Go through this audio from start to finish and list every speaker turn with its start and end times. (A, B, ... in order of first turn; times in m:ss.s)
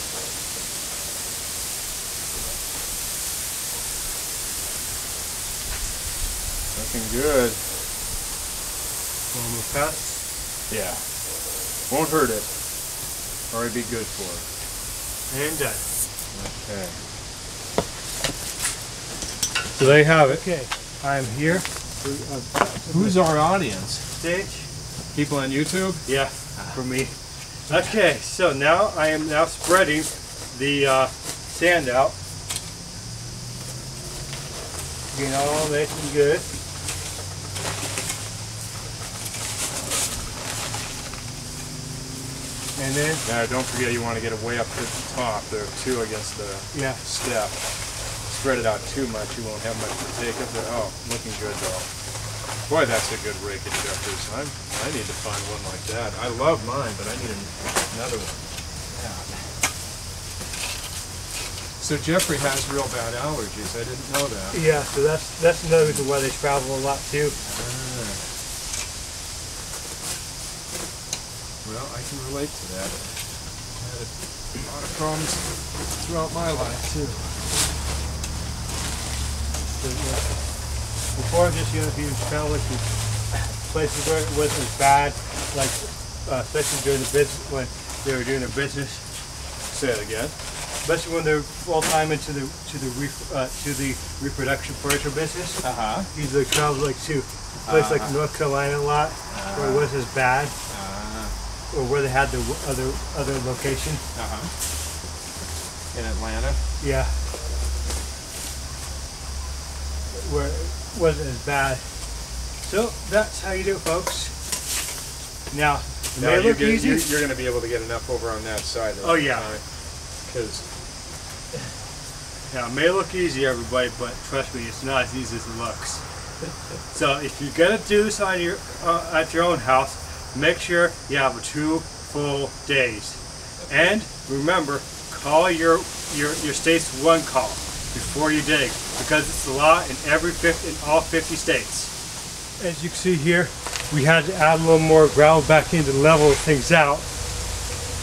0:06.7-0:07.6 A
0:09.3-0:10.2 B
0:10.7-0:11.0 A
0:11.9-0:12.5 A
0:13.5-0:14.4 A
0:15.3-0:15.8 B
0:16.3-0:17.0 A
0:19.7-0:23.2 B
0:22.9-0:24.0 A
0:24.2-0:24.6 B
0:25.1-0:26.0 A
0:26.0-0:27.1 B
0:27.7-0:32.2 B
0:35.1-0:36.5 B
0:42.8-0:43.2 B
0:43.2-0:47.6 A
0:46.7-0:47.0 B
0:48.3-0:51.9 A
0:52.7-0:59.4 A
1:01.8-1:04.7 A
1:04.5-1:07.4 B
1:07.4-1:08.2 A
1:11.6-1:13.2 A
1:13.8-1:17.3 A
1:19.8-1:20.3 B
1:21.1-1:29.0 B
1:29.7-1:35.6 B
1:35.6-1:36.1 A
1:36.1-1:40.5 B
1:37.6-1:38.2 A
1:39.3-1:39.9 A
1:40.7-1:41.3 A
1:41.7-1:44.0 B
1:44.1-1:44.5 A
1:45.9-1:46.6 A
1:46.8-1:47.1 B
1:50.1-1:51.8 B
1:52.6-1:54.3 B
1:55.5-1:57.1 B
1:56.2-1:59.6 A
1:59.0-1:59.5 B
2:00.2-2:00.6 A
2:02.5-2:06.0 B
2:06.9-2:21.9 B
2:22.6-2:27.0 B